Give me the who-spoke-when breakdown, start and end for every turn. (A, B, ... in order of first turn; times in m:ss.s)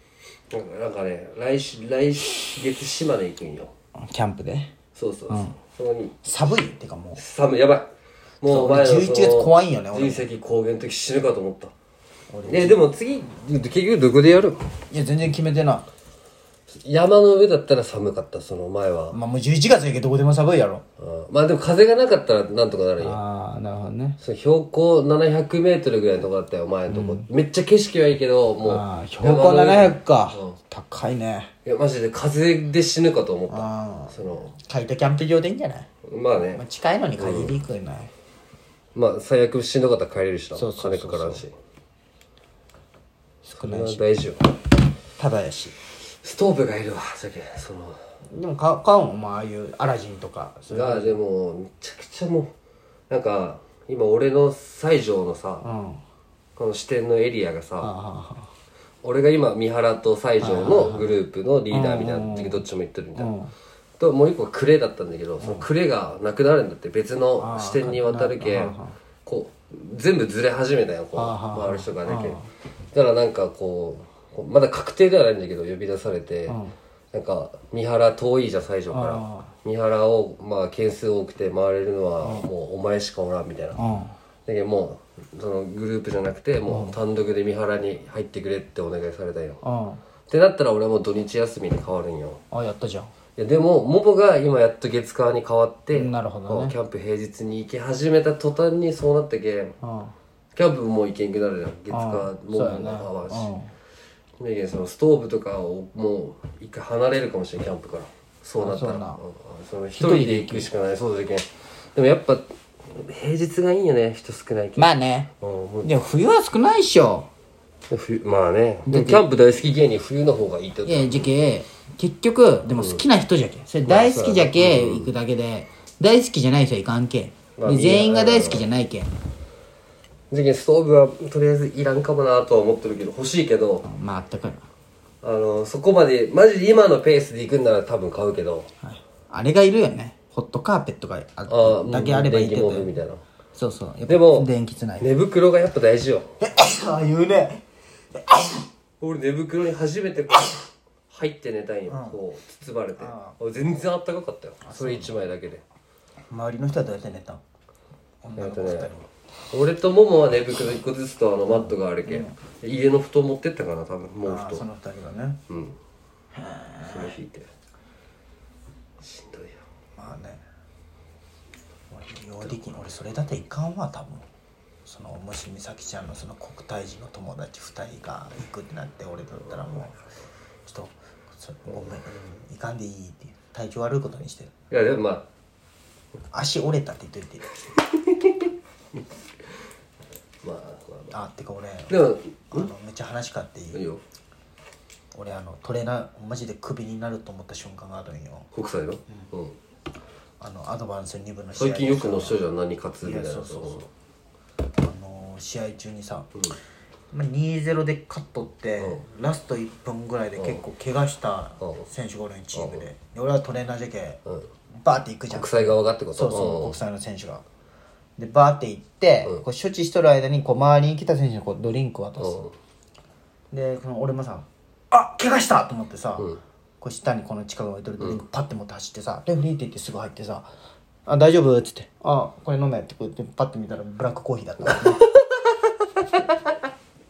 0:00.5-0:03.7 A
0:04.0-0:04.7 B
0:05.0-0:06.2 A
0:05.3-0:05.6 B
0:06.2-0:07.2 B
0:07.2-0:11.7 A
0:08.4-0:10.2 B
0:12.3-0:12.8 B
0:12.5-0:14.6 A
0:14.9-0:15.9 B
0:16.7-0:19.2 A
0:19.1-0:20.8 B
0:21.0-0:23.2 A
0:23.0-0:24.2 B
0:24.2-0:30.6 A
0:26.9-0:27.3 B
0:28.6-0:31.5 B
0:31.6-0:34.5 A
0:33.5-0:35.9 B
0:36.1-0:36.6 A
0:36.6-0:38.1 B
0:37.2-0:37.6 A
0:39.0-0:41.5 A
0:40.6-0:41.4 B
0:43.4-0:44.1 B
0:43.6-0:44.5 A
0:45.2-0:45.8 B
0:46.2-0:48.0 A
0:48.3-0:51.2 B
0:50.7-0:52.5 A
0:53.1-0:55.7 A
0:55.6-0:56.0 B
0:56.6-0:57.9 A
0:57.8-0:58.5 B
0:59.0-1:03.3 A
1:00.4-1:01.2 B
1:01.7-1:02.6 B
1:03.2-1:03.5 B
1:04.0-1:12.4 A
1:05.4-1:05.7 B
1:07.4-1:09.0 B
1:11.2-1:12.5 B
1:12.9-1:16.6 A
1:16.5-1:16.7 B
1:17.1-1:23.8 A
1:18.9-1:19.5 B
1:22.2-1:22.5 B
1:23.8-1:24.2 B
1:24.5-1:29.6 A
1:26.7-1:27.0 B
1:29.6-1:30.0 B
1:30.3-1:32.4 A
1:32.5-1:33.1 B
1:33.4-1:39.8 A
1:35.9-1:36.8 B
1:39.8-1:40.1 B
1:40.6-1:43.5 A
1:41.9-1:43.7 B
1:44.4-1:54.9 A
1:48.6-1:49.2 B
1:50.0-1:50.7 B
1:54.8-1:55.3 B
1:55.4-1:55.9 A
1:55.8-1:57.3 B
1:57.9-2:01.3 A
1:58.9-1:59.2 B
2:00.8-2:09.2 B
2:02.7-2:03.0 A
2:03.9-2:05.1 A
2:07.6-2:08.7 A
2:10.3-2:13.8 A
2:13.8-2:14.7 B
2:15.2-2:18.7 A
2:18.8-2:22.9 B
2:21.5-2:23.2 A
2:23.6-2:25.1 B
2:24.1-2:24.5 A
2:25.0-2:26.3 A
2:26.4-2:27.6 B
2:28.2-2:28.7 B
2:29.0-2:35.6 A
2:31.9-2:32.2 B
2:33.0-2:33.4 B
2:34.6-2:35.2 B
2:36.3-2:37.4 B
2:38.2-2:39.0 B
2:38.4-2:39.0 A
2:39.5-2:44.6 A
2:42.1-2:42.4 B
2:44.2-2:45.4 B
2:45.5-2:45.8 A
2:46.4-2:47.2 B
2:46.8-2:47.5 A
2:49.0-2:49.6 A
2:50.0-2:50.4 B
2:51.9-2:54.3 B
2:54.9-3:00.0 B
3:00.7-3:04.5 B
3:04.7-3:05.3 A
3:06.3-3:07.6 B
3:07.8-3:08.5 A
3:10.4-3:11.1 A
3:11.1-3:13.8 B
3:11.9-3:12.7 A
3:13.7-3:14.0 A
3:15.1-3:18.5 B
3:18.5-3:19.6 A
3:20.4-3:22.4 B
3:21.6-3:23.9 A
3:23.0-3:23.8 B
3:24.8-3:26.3 B
3:27.1-3:34.2 B
3:30.4-3:30.6 A
3:31.6-3:31.9 A
3:32.6-3:32.8 A
3:34.8-3:37.4 B
3:35.3-3:36.8 A
3:38.2-3:42.4 B
3:42.2-3:42.5 A
3:43.5-3:50.5 B
3:51.1-3:55.1 B
3:54.7-3:56.4 A